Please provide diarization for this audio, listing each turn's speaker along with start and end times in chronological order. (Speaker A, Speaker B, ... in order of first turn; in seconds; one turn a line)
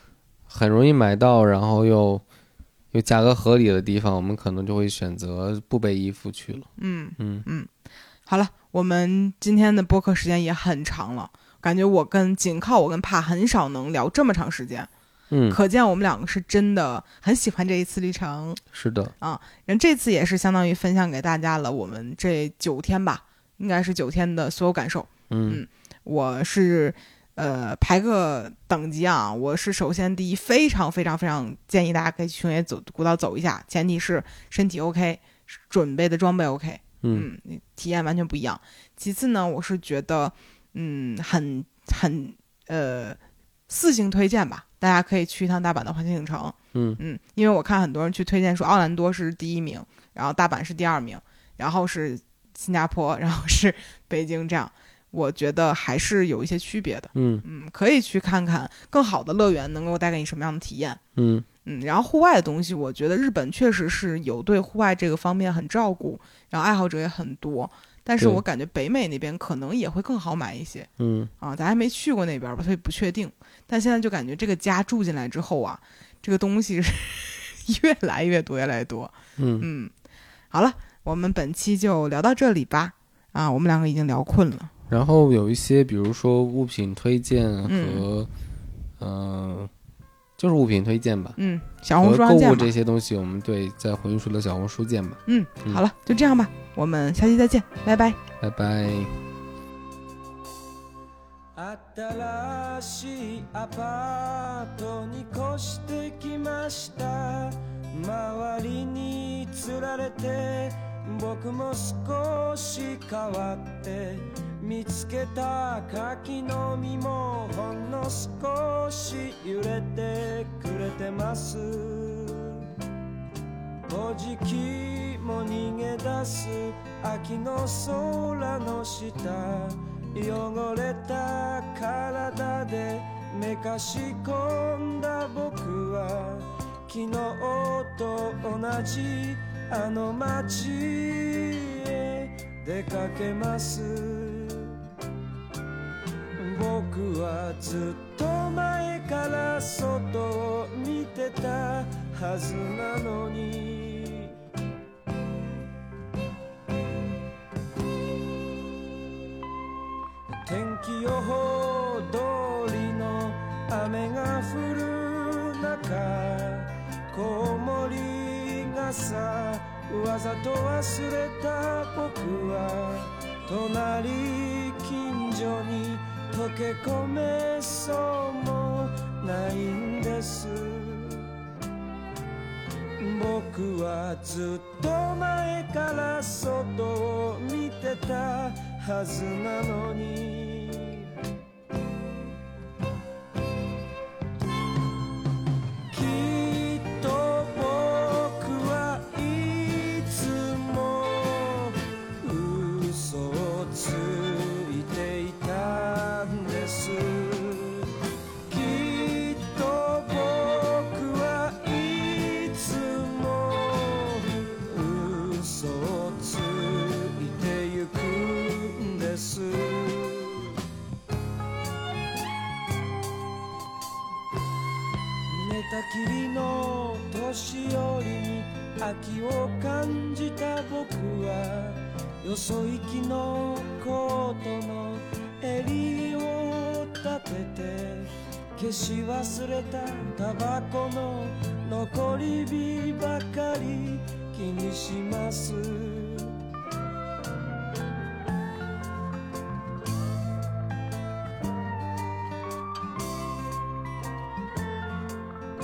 Speaker A: 0.5-2.2
Speaker A: 2.9-7.5
Speaker B: 6.8-7.7
Speaker B: 8.3-14.9
Speaker A: 15.3-15.6
Speaker B: 15.5-18.6
Speaker A: 18.7-19.1
Speaker B: 19.2-43.2
Speaker A: 25.3-25.6
Speaker A: 37.0-37.3
Speaker B: 43.7-61.0
Speaker A: 46.7-47.0
Speaker A: 57.1-57.4
Speaker A: 61.1-61.5
Speaker B: 61.6-70.9
Speaker A: 68.2-68.4
Speaker A: 71.0-71.3
Speaker B: 71.4-79.9
Speaker A: 79.4-79.7
Speaker B: 80.5-84.7
Speaker A: 84.9-88.3
Speaker B: 87.7-88.0
Speaker A: 89.0-89.7
Speaker A: 90.4-91.4
Speaker B: 91.4-92.7
Speaker A: 92.0-95.8
Speaker B: 95.3-98.2
Speaker A: 98.4-99.2
Speaker C: 101.5-122.7
Speaker C: 123.9-144.8
Speaker C: 146.4-154.4
Speaker C: 160.3-181.3
Speaker C: 183.0-191.1
Speaker C: 195.9-207.9
Speaker C: 208.5-220.6
Speaker C: 225.3-246.4